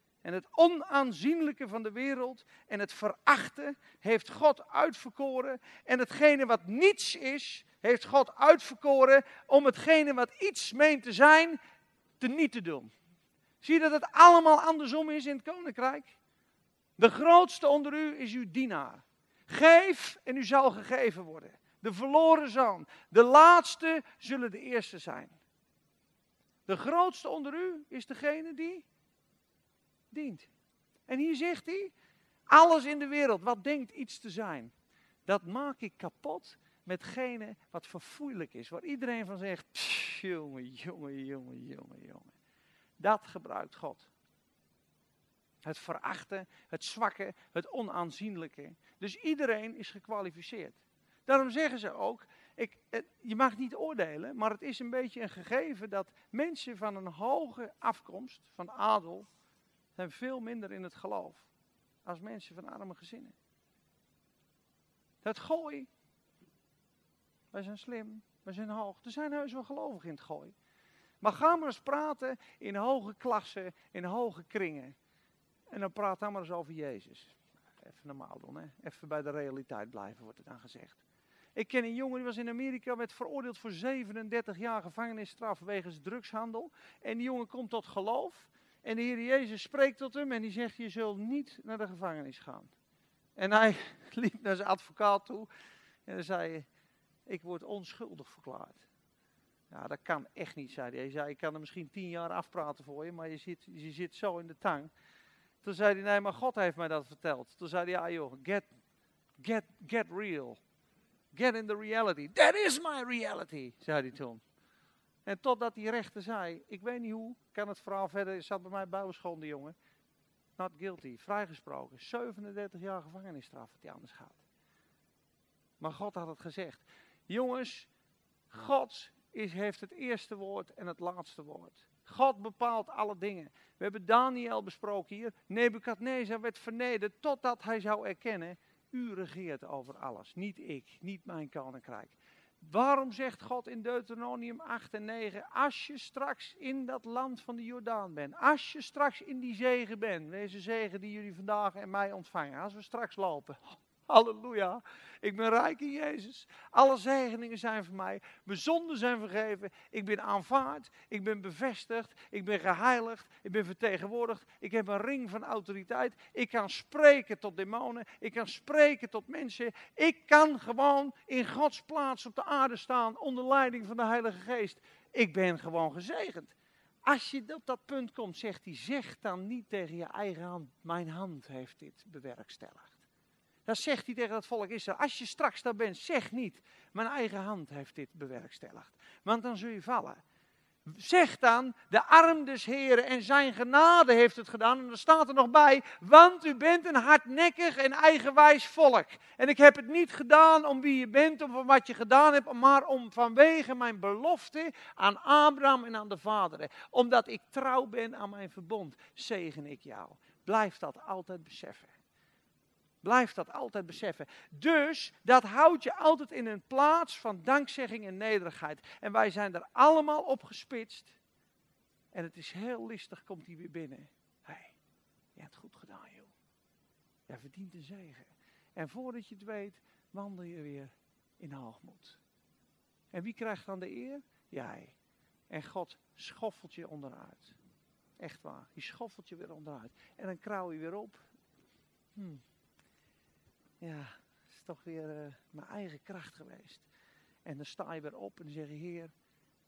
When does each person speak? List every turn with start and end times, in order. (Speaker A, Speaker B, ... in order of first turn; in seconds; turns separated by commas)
Speaker A: 0.2-11.6, Speaker A: 12.2-12.9, Speaker A: 13.6-16.1, Speaker A: 17.0-25.4, Speaker A: 26.6-28.8, Speaker A: 30.1-30.5, Speaker A: 31.1-31.9, Speaker A: 32.5-34.7, Speaker A: 35.2-42.3, Speaker A: 43.0-44.1, Speaker A: 45.6-59.3, Speaker A: 60.0-61.5, Speaker A: 62.0-63.3, Speaker A: 65.2-65.9, Speaker A: 67.5-70.5, Speaker A: 71.2-74.9, Speaker A: 75.7-81.0, Speaker A: 81.5-92.7, Speaker A: 93.3-95.5, Speaker A: 96.0-96.7, Speaker A: 97.3-98.8, Speaker A: 99.7-104.9, Speaker A: 105.6-108.7, Speaker A: 109.4-110.6, Speaker A: 111.3-114.4, Speaker A: 115.2-119.7, Speaker A: 120.6-124.4, Speaker A: 125.8-127.9, Speaker A: 128.5-176.5, Speaker A: 177.0-183.0, Speaker A: 183.7-190.2, Speaker A: 190.8-211.9, Speaker A: 213.0-221.1, Speaker A: 222.1-224.7, Speaker A: 225.3-226.3, Speaker A: 227.3-232.2, Speaker A: 233.1-234.9, Speaker A: 235.5-237.6, Speaker A: 238.2-241.2, Speaker A: 242.1-242.4, Speaker A: 243.8-246.8, Speaker A: 247.4-249.1